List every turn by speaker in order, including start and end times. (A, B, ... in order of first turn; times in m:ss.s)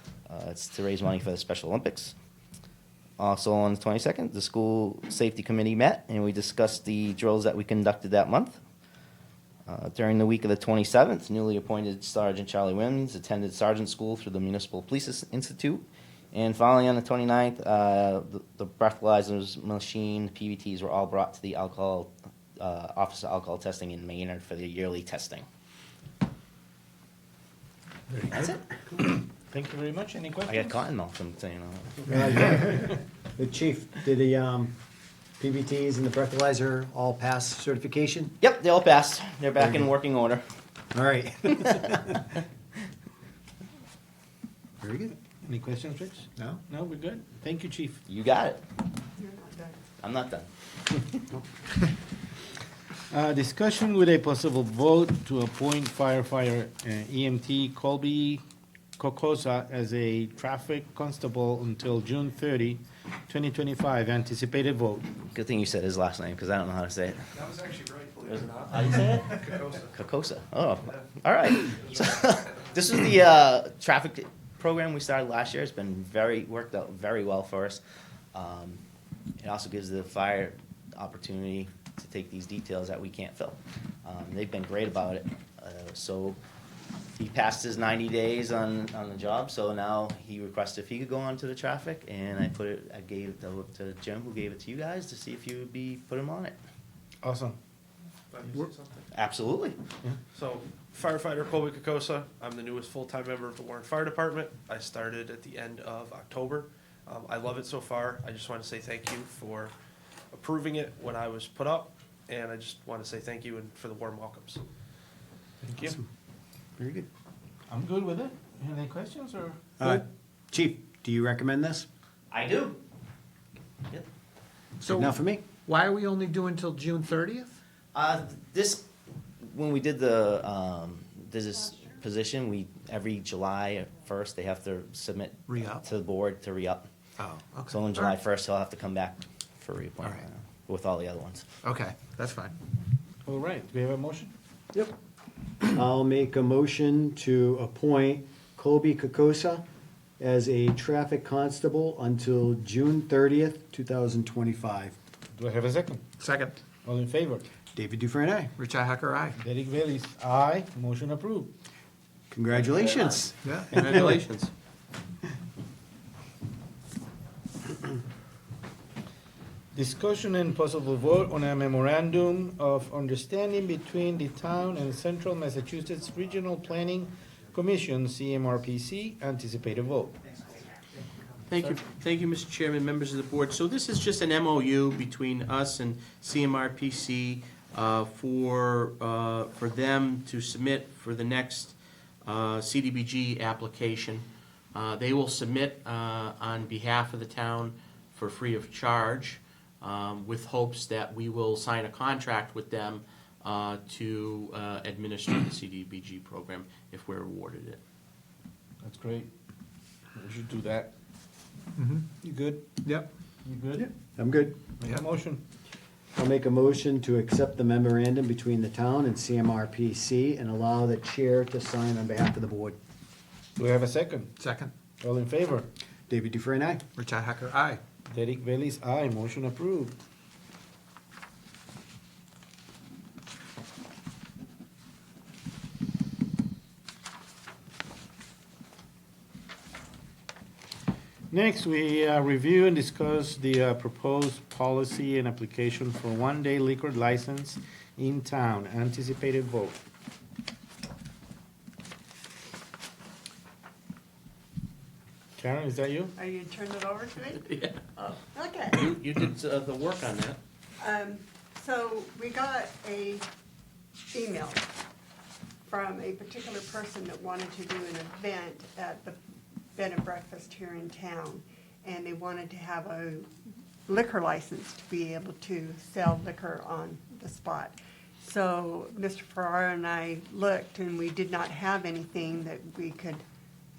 0:00.3-0:02.1 A
0:03.2-0:08.6 A
0:09.7-0:25.4 A
0:28.1-0:30.6 B
0:30.5-0:32.1 A
0:32.1-0:34.7 C
0:35.4-0:38.3 C
0:38.4-0:40.4 A
0:39.6-0:39.9 C
0:40.9-0:42.2 C
0:44.8-0:45.1 C
0:45.4-0:48.0 B
0:48.1-0:48.6 A
0:49.2-0:49.8 D
0:50.0-0:50.5 A
0:53.1-0:58.4 B
0:59.0-1:05.0 B
1:05.3-1:07.2 A
1:07.3-1:10.0 E
1:08.8-1:09.1 A
1:09.9-1:17.8 A
1:18.3-1:18.8 A
1:19.4-1:26.4 A
1:27.2-1:36.5 A
1:37.2-1:37.6 B
1:38.3-1:39.0 E
1:39.1-1:39.8 A
1:40.3-1:49.7 E
1:50.3-1:54.6 E
1:55.6-1:56.0 B
1:56.8-1:57.1 C
1:57.7-1:59.6 B
1:59.8-2:01.9 C
2:02.3-2:02.8 A
2:04.8-2:07.6 F
2:04.8-2:05.5 C
2:07.9-2:08.9 A
2:09.4-2:16.9 A
2:15.5-2:15.8 F
2:17.2-2:18.1 F
2:17.7-2:21.4 A
2:21.6-2:22.6 F
2:23.2-2:24.3 B
2:25.6-2:29.6 C
2:30.2-2:35.0 C
2:35.4-2:36.0 B
2:36.2-2:36.6 F
2:36.8-2:37.4 B
2:37.7-2:38.5 C
2:38.6-2:39.4 F
2:39.3-2:41.5 B
2:42.3-2:44.0 C
2:42.5-2:44.3 G
2:43.4-2:43.7 F
2:49.7-3:00.1 B
3:01.5-3:27.8 G
3:28.8-3:29.3 B
3:30.1-3:30.9 B
3:31.8-3:32.1 F
3:32.2-3:32.6 B
3:32.8-3:33.1 F
3:33.4-3:33.9 B
3:33.8-3:34.6 C
3:34.8-3:35.4 B
3:36.1-3:42.8 C
3:43.6-3:44.3 B
3:44.4-3:44.7 F
3:45.0-3:45.6 B
3:46.1-3:46.8 C
3:46.9-3:47.8 F
3:48.1-3:50.0 B
4:01.3-4:09.8 B
4:15.4-4:16.1 B
4:16.2-4:17.5 D
4:17.4-4:20.4 G
4:18.3-4:18.8 D
4:20.8-4:23.2 D
4:24.1-4:24.7 D
4:25.7-4:29.2 D
4:29.7-4:33.3 D
4:33.9-4:43.2 D